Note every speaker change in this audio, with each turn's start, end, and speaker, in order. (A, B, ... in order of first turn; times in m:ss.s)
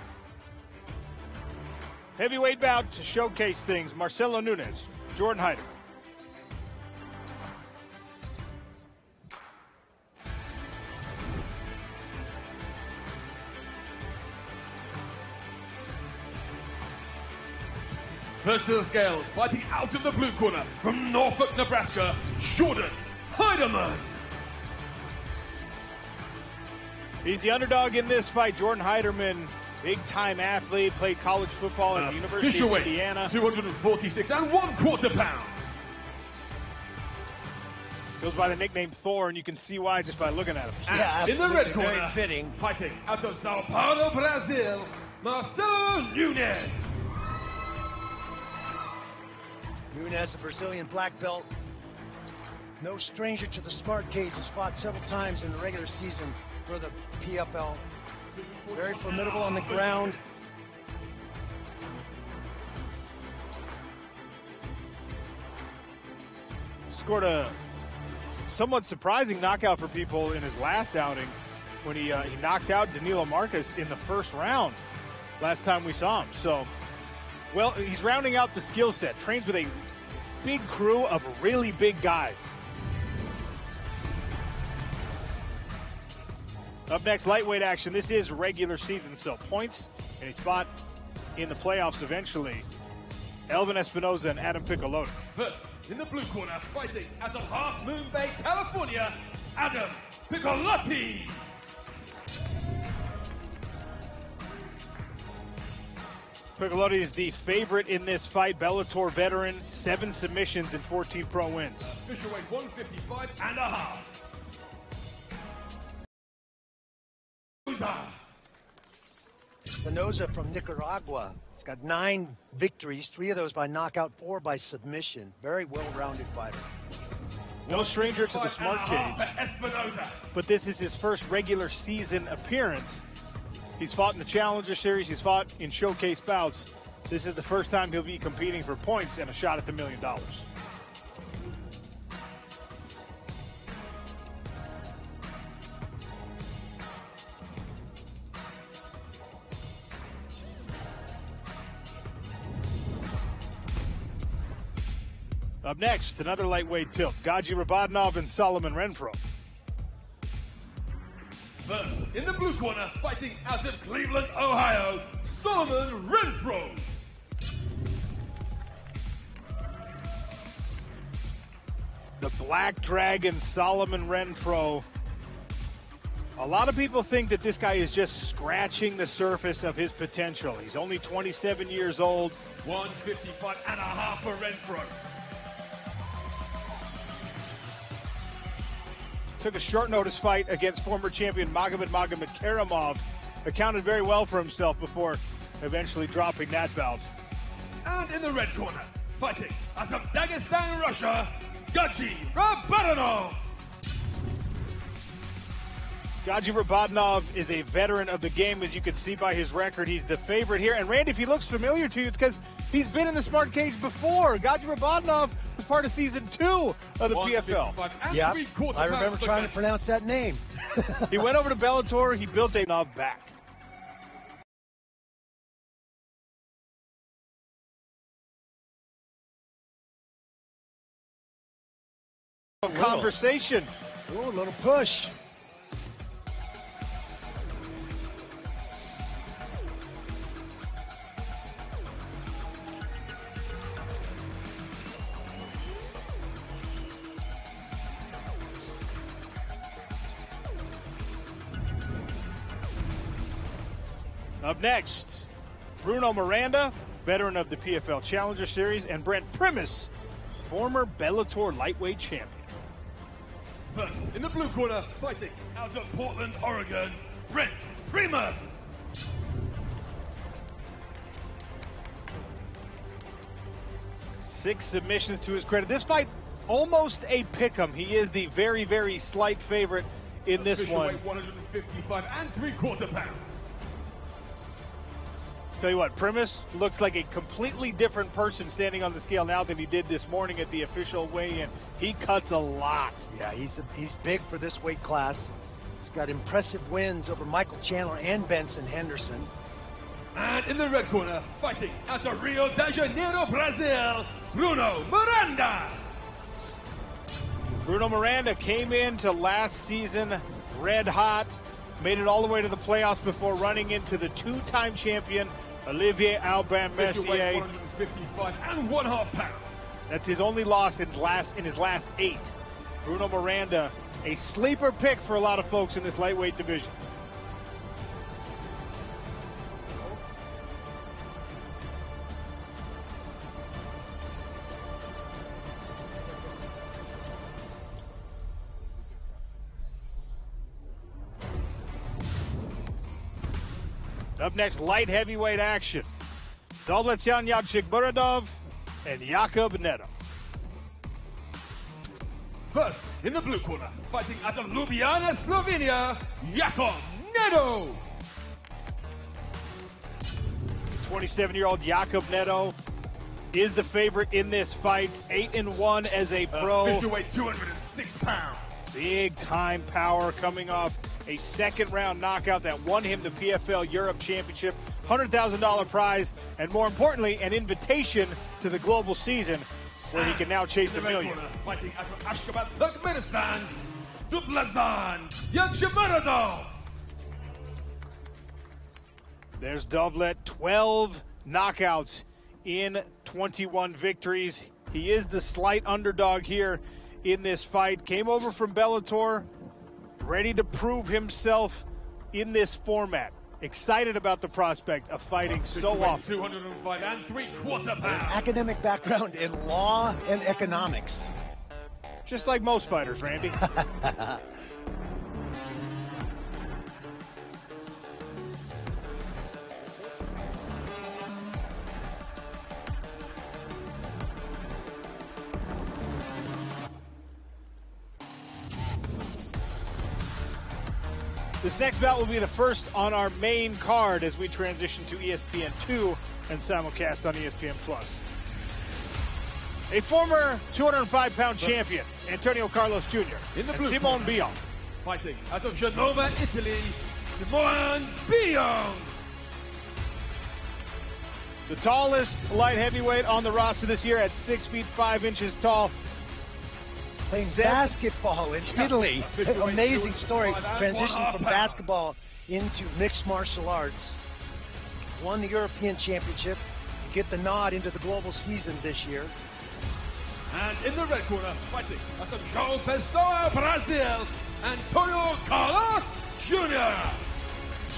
0:02.2-0:05.7 A
0:18.4-0:24.1 B
0:27.2-0:33.3 A
0:31.9-0:35.7 B
0:38.2-0:41.0 A
0:40.9-0:42.5 C
0:40.9-0:46.9 B
0:49.9-0:51.5 C
0:52.8-0:57.8 C
0:58.3-1:00.4 B
0:58.7-1:00.2 C
1:06.9-1:07.5 A
1:08.5-1:14.8 A
1:15.4-1:16.7 A
1:17.5-1:19.8 A
1:20.4-1:22.5 A
1:26.9-1:30.7 A
1:31.4-1:32.6 A
1:33.5-1:35.2 A
1:35.3-1:41.4 B
1:46.6-1:51.9 A
1:51.8-1:54.2 B
1:57.7-1:58.1 B
1:59.8-2:06.7 C
2:07.6-2:10.2 B
2:07.7-2:09.3 A
2:10.3-2:13.0 A
2:13.8-2:20.4 A
2:35.6-2:39.2 A
2:41.6-2:46.8 B
2:52.2-2:54.8 A
2:56.4-3:02.4 A
3:02.6-3:04.9 B
3:09.4-3:17.1 A
3:17.8-3:23.4 B
3:26.2-3:37.8 A
3:37.0-3:39.6 B
3:38.1-3:41.1 C
3:41.1-3:43.3 A
3:52.6-3:53.7 A
3:52.6-3:53.2 C
3:54.1-3:55.1 C
4:14.4-4:15.3 A
4:15.8-4:22.5 A
4:23.7-4:28.7 B
4:34.2-4:41.0 A
4:40.3-4:43.4 B
4:45.6-4:53.1 A
4:53.1-4:59.3 C
5:00.1-5:05.8 B
5:07.6-5:17.4 A
5:16.7-5:19.7 B
5:19.9-5:26.8 A
5:44.2-5:45.9 A
5:46.6-5:49.9 A
5:52.5-5:57.8 B
6:00.8-6:02.6 A
6:03.3-6:06.9 A
6:06.3-6:08.5 B
6:08.7-6:21.2 A
6:19.9-6:23.6 B
6:24.1-6:26.6 B
6:29.4-6:39.3 A
6:40.0-6:46.0 A
6:45.3-6:48.2 B
6:47.8-6:51.0 C
6:52.0-6:53.4 A
6:53.5-6:54.2 C
7:11.4-7:18.0 A
7:19.7-7:24.4 A
7:23.3-7:28.9 B
7:31.5-7:35.7 A
7:37.0-7:44.0 C
7:37.1-7:37.7 A
7:38.5-7:41.6 B
7:44.9-7:49.1 C
7:50.3-7:57.0 B